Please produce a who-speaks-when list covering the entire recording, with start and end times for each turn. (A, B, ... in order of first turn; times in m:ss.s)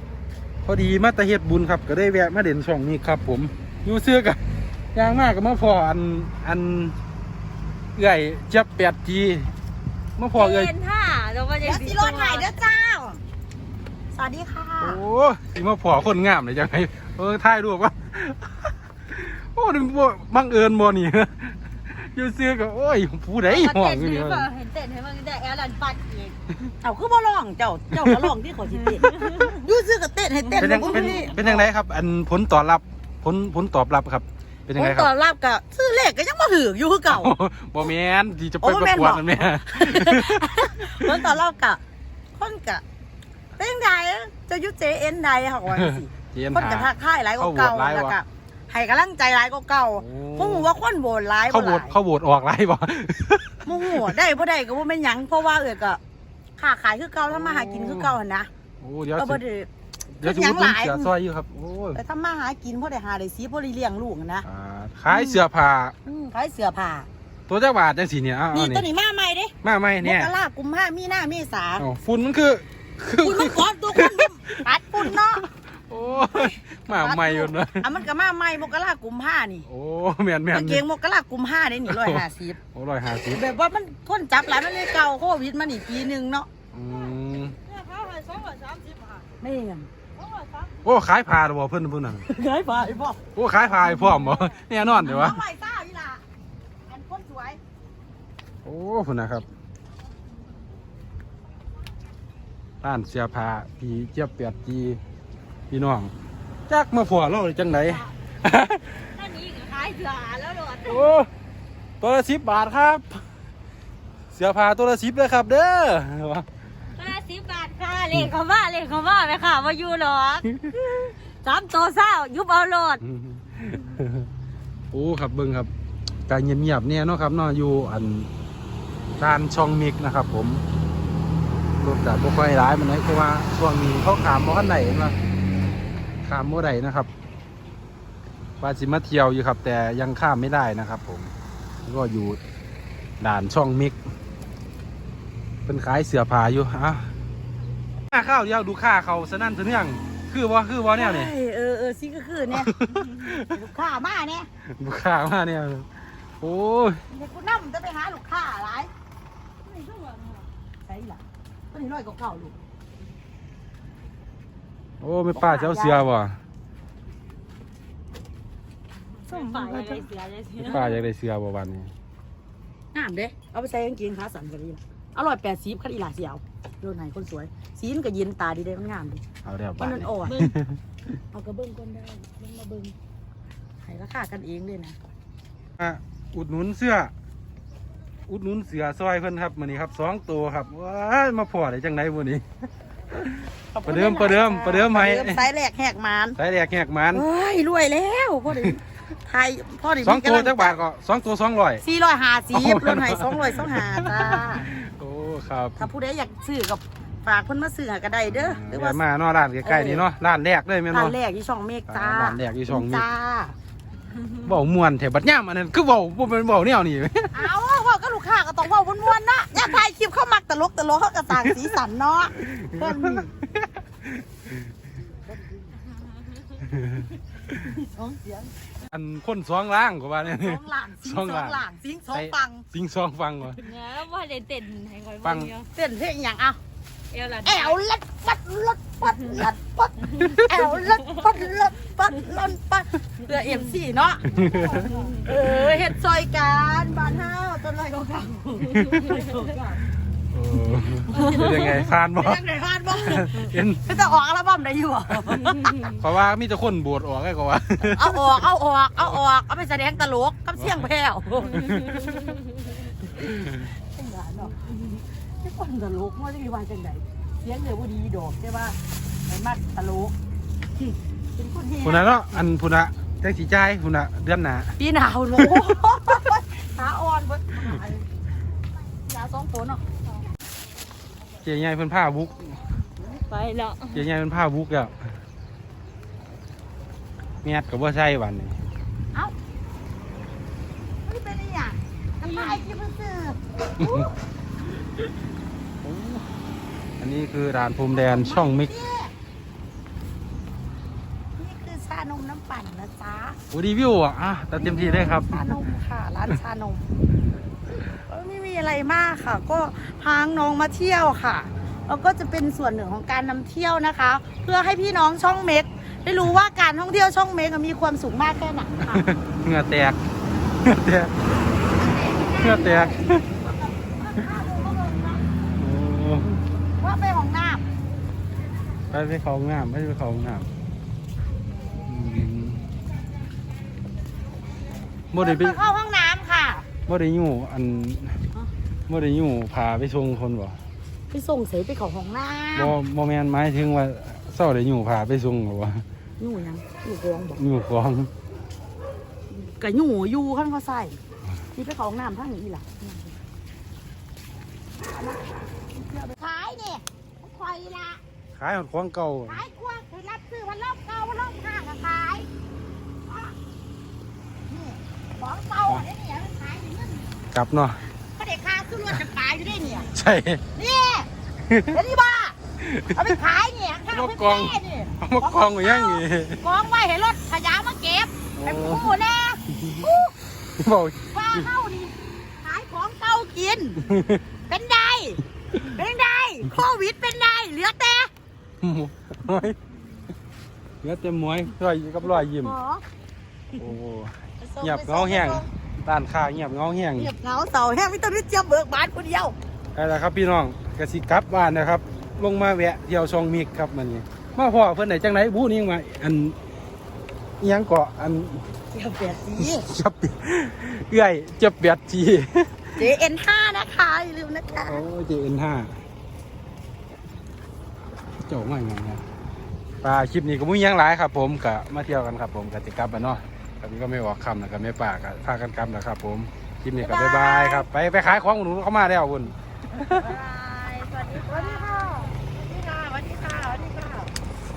0:00.6-0:04.4 A
0:04.9-0:07.0 A
0:08.0-0:09.5 A
0:10.2-0:10.7 A
0:10.3-0:12.5 B
0:11.6-0:13.2 C
0:14.1-0:15.0 C
0:14.8-0:24.5 A
0:23.4-0:26.4 B
0:26.8-0:31.7 C
0:29.0-0:29.5 B
0:30.4-0:31.4 B
0:30.6-0:35.1 A
0:34.8-0:37.9 C
0:37.1-0:41.3 A
0:38.6-0:41.8 C
0:42.4-0:42.8 C
0:43.6-0:52.0 C
0:45.7-0:48.2 A
0:50.0-0:50.7 A
0:51.5-0:54.2 A
0:53.6-0:56.0 C
0:56.6-0:58.5 C
0:57.3-0:58.2 A
0:58.8-0:59.4 A
0:59.2-0:59.7 C
1:00.2-1:02.0 A
1:00.2-1:01.1 C
1:02.0-1:04.5 C
1:04.4-1:06.0 A
1:05.1-1:05.4 C
1:06.1-1:07.1 C
1:07.5-1:08.9 A
1:08.5-1:11.9 C
1:09.6-1:10.3 A
1:11.8-1:17.9 A
1:13.2-1:15.5 C
1:16.2-1:19.7 C
1:19.7-1:20.8 A
1:20.5-1:22.6 C
1:21.9-1:23.4 A
1:23.3-1:26.5 C
1:26.7-1:27.6 A
1:27.8-1:29.2 B
1:29.2-1:30.1 C
1:30.2-1:30.6 B
1:30.8-1:32.2 A
1:32.2-1:33.2 C
1:33.4-1:35.4 A
1:34.9-1:36.2 C
1:36.9-1:37.6 C
1:38.6-1:39.5 A
1:42.8-1:45.0 A
1:45.7-1:46.1 A
1:46.7-1:49.0 A
1:49.0-1:51.0 B
1:50.9-1:51.3 A
1:52.0-1:53.2 A
1:54.4-1:56.5 A
1:57.0-2:03.0 B
2:03.0-2:04.3 A
2:04.9-2:05.7 A
2:06.3-2:08.3 A
2:09.2-2:10.6 A
2:11.8-2:15.2 A
2:16.2-2:17.1 A
2:18.6-2:21.3 A
2:21.8-2:22.4 A
2:23.2-2:24.0 A
2:25.7-2:27.1 A
2:28.1-2:31.3 A
2:30.9-2:32.7 C
2:32.5-2:33.6 A
2:33.4-2:34.5 C
2:34.8-2:35.9 A
2:36.4-2:37.0 A
2:37.1-2:38.9 C
2:39.7-2:40.5 B
2:40.8-2:42.6 C
2:45.0-2:46.4 A
2:45.3-2:46.1 C
2:49.2-2:51.0 B
2:49.3-2:50.0 C
2:50.6-2:51.9 A
2:52.9-2:59.2 C
2:59.4-3:00.8 A
2:59.8-3:00.4 C
3:00.3-3:00.5 B
3:01.3-3:03.0 C
3:03.8-3:05.0 C
3:05.8-3:07.1 A
3:08.3-3:12.4 A
3:13.2-3:15.4 A
3:13.7-3:16.4 C
3:16.4-3:17.3 A
3:17.1-3:20.8 C
3:18.5-3:18.8 A
3:20.0-3:21.8 A
3:21.8-3:24.7 C
3:22.5-3:25.9 A
3:25.8-3:29.0 C
3:28.3-3:31.2 A
3:29.6-3:30.1 C
3:30.9-3:33.6 C
3:31.9-3:33.1 A
3:34.4-3:37.5 A
3:37.3-3:43.3 C
3:41.4-3:41.7 A
3:42.4-3:44.6 A
3:45.3-3:45.7 C
3:46.7-3:47.6 A
3:47.6-3:48.5 C
3:48.9-3:53.6 A
3:50.2-3:52.7 C
3:53.6-3:55.7 B
3:55.2-3:55.5 A
3:55.8-3:56.6 C
3:57.1-3:57.8 B
3:57.4-4:04.3 C
4:00.2-4:01.0 B
4:00.2-4:00.6 A
4:04.3-4:04.9 A
4:04.4-4:05.2 B
4:04.9-4:09.8 C
4:08.8-4:09.1 A
4:10.3-4:12.4 A
4:11.1-4:16.0 C
4:13.0-4:13.8 A
4:15.8-4:18.4 A
4:17.8-4:21.7 C
4:20.6-4:20.9 A
4:21.5-4:22.4 A
4:23.2-4:28.8 C
4:23.2-4:23.5 A
4:29.3-4:30.1 C
4:30.8-4:32.4 C
4:31.8-4:34.8 A
4:34.8-4:38.0 C
4:35.4-4:35.7 A
4:39.1-4:39.8 C
4:41.4-4:42.6 A
4:43.1-4:44.0 B
4:43.9-4:45.0 A
4:47.4-4:48.6 A
4:51.1-4:54.1 C
4:52.3-4:52.5 B
4:53.8-4:54.1 A
4:55.8-4:56.2 A
4:57.0-4:58.7 A
4:57.9-4:59.1 C
5:01.4-5:03.4 C
5:03.5-5:05.6 A
5:04.6-5:06.9 C
5:08.1-5:19.1 C
5:18.8-5:20.0 A
5:20.6-5:21.1 A
5:21.7-5:25.4 C
5:22.4-5:23.3 A
5:25.6-5:26.4 A
5:26.8-5:27.6 C
5:28.9-5:30.5 A
5:31.8-5:32.6 A
5:35.1-5:35.6 A
5:35.2-5:36.7 C
5:36.8-5:38.2 A
5:38.9-5:40.6 A
5:41.1-5:42.8 C
5:42.6-5:45.8 A
5:46.2-5:47.4 C
5:47.4-5:48.1 A
5:49.3-5:51.0 C
5:51.6-5:53.2 C
5:54.9-5:58.0 C
5:58.4-5:59.4 A
5:59.3-6:02.3 C
6:03.1-6:03.3 C
6:04.5-6:07.1 C
6:07.3-6:07.8 A
6:08.2-6:09.9 C
6:09.9-6:10.4 A
6:10.6-6:11.1 C
6:11.4-6:11.8 A
6:11.7-6:12.4 C
6:12.6-6:13.1 A
6:12.9-6:20.1 C
6:13.9-6:16.4 A
6:18.4-6:19.0 A
6:19.6-6:19.9 A
6:20.6-6:21.5 A
6:21.1-6:23.9 C
6:23.8-6:24.2 A
6:24.5-6:28.1 C
6:28.6-6:29.6 A
6:30.8-6:32.6 A
6:32.0-6:32.8 C
6:33.6-6:37.1 A
6:34.4-6:35.5 C
6:37.0-6:39.4 C
6:39.8-6:46.4 A
6:47.4-6:48.5 A
6:48.7-6:49.7 C
6:49.4-6:52.9 A
6:52.8-6:54.8 C
6:54.5-6:55.8 A
6:58.3-6:59.0 A
6:59.8-7:10.1 A
7:06.8-7:07.7 C
7:09.7-7:10.3 C
7:10.1-7:12.2 B
7:10.9-7:14.1 C